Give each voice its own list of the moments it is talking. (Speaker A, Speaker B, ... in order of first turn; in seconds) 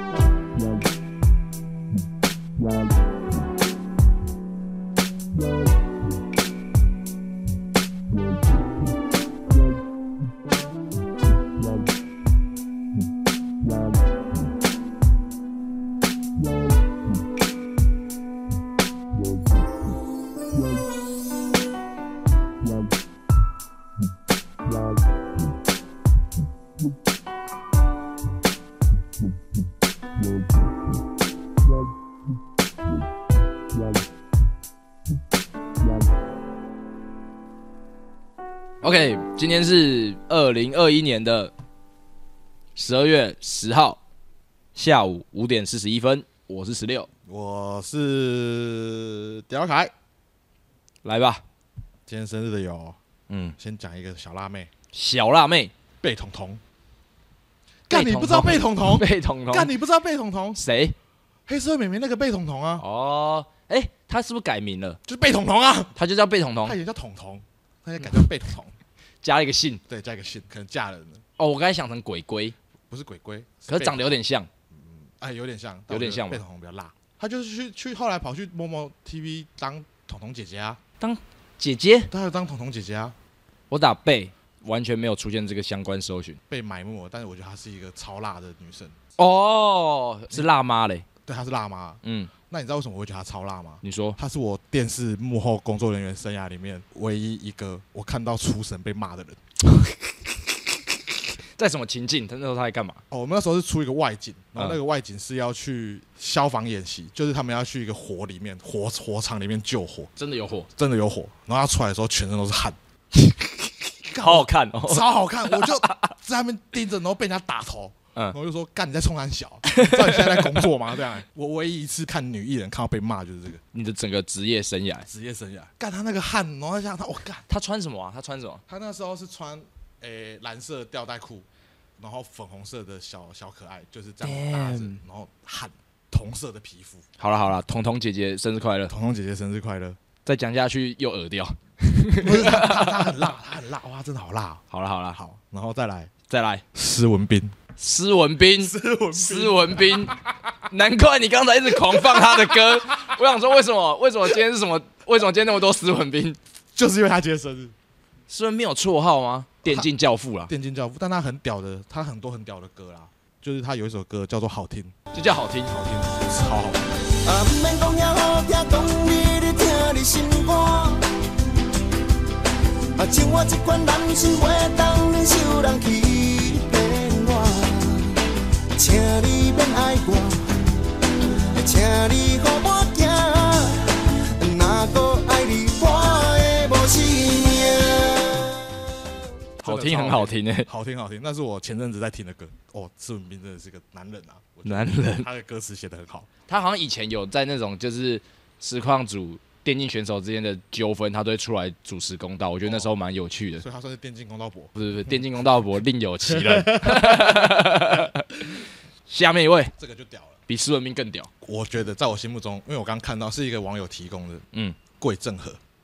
Speaker A: 38.8-41.5, 42.8-44.0, 44.7-47.1, 51.0-51.4, 53.3-53.5, 54.9-55.7, 57.9-59.7, 60.5-61.0, 62.8-65.0, 65.9-66.8, 69.2-69.8, 71.4-72.5, 73.7-74.5, 75.9-76.4, 81.0-82.1, 83.7-86.4, 89.2-91.1, 92.0-92.3, 93.8-94.2, 99.7-103.0, 110.2-110.7, 113.1-116.1, 119.7-120.7, 123.7-125.1, 127.5-128.6, 134.2-135.0, 137.2-138.9, 140.2-143.2, 144.7-145.2, 146.3-146.6, 147.8-150.2, 150.7-156.4, 158.3-160.5, 165.1-166.1, 189.6-190.7, 194.6-195.3, 196.5-203.6, 204.8-209.7, 210.5-211.3
Speaker B: 47.2-49.9, 52.1-53.0, 53.6-54.7, 56.0-56.6, 57.9-60.6, 61.5-62.8, 65.1-66.0, 66.6-68.7, 69.9-71.2, 72.9-74.2, 74.7-80.8, 82.1-83.2, 86.5-89.0, 91.2-99.4, 103.1-110.1, 110.7-112.8, 114.0-123.6, 125.1-127.4, 128.7-131.5, 132.0-137.0, 138.9-140.0, 142.2-146.1, 146.7-147.6, 148.6-150.2, 151.9-152.5, 156.7-157.7, 160.5-164.9, 165.7-166.9, 189.6-196.3, 203.6-205.2, 206.3-207.6, 209.8-210.4, 211.4-214.4, 215.0-215.6
Speaker C: 167.1-171.2, 173.0-180.7, 181.5-188.8